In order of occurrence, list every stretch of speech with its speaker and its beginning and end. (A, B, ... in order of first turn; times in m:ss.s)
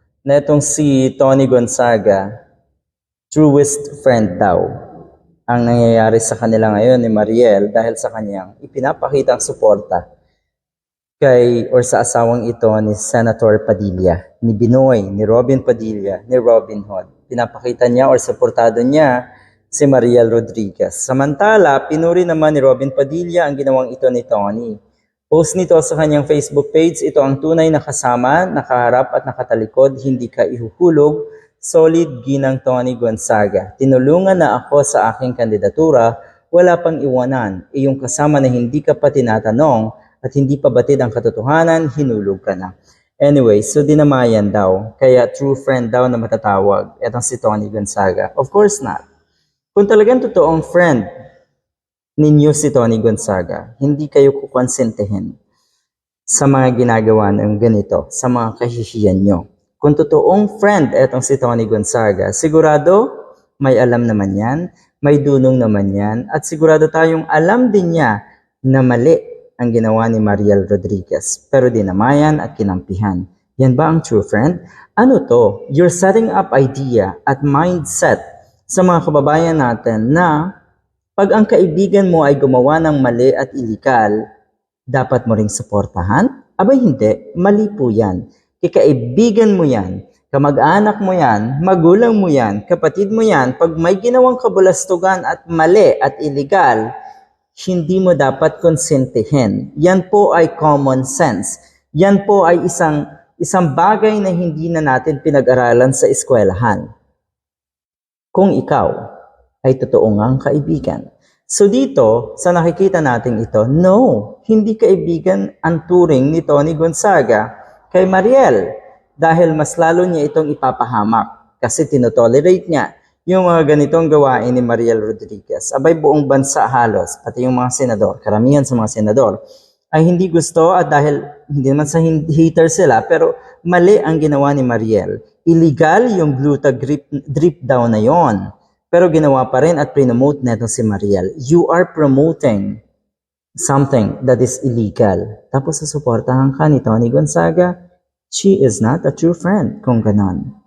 0:00.2-0:02.3 A
0:03.3-0:04.7 A
0:05.5-0:10.0 A
0:11.2-0:19.2 A
0:19.7-0:24.8 A
0:25.3-0:49.0 A
0:49.7-0:51.1 A
0:52.2-0:55.3 A
0:56.3-1:20.4 A
1:21.2-1:24.1 A
1:24.9-1:36.8 A
1:37.6-1:46.8 A
1:48.3-1:49.0 A
1:49.6-1:58.6 A
1:59.2-2:09.4 A
2:09.9-2:22.8 A
2:23.6-2:27.7 A
2:28.3-2:30.5 A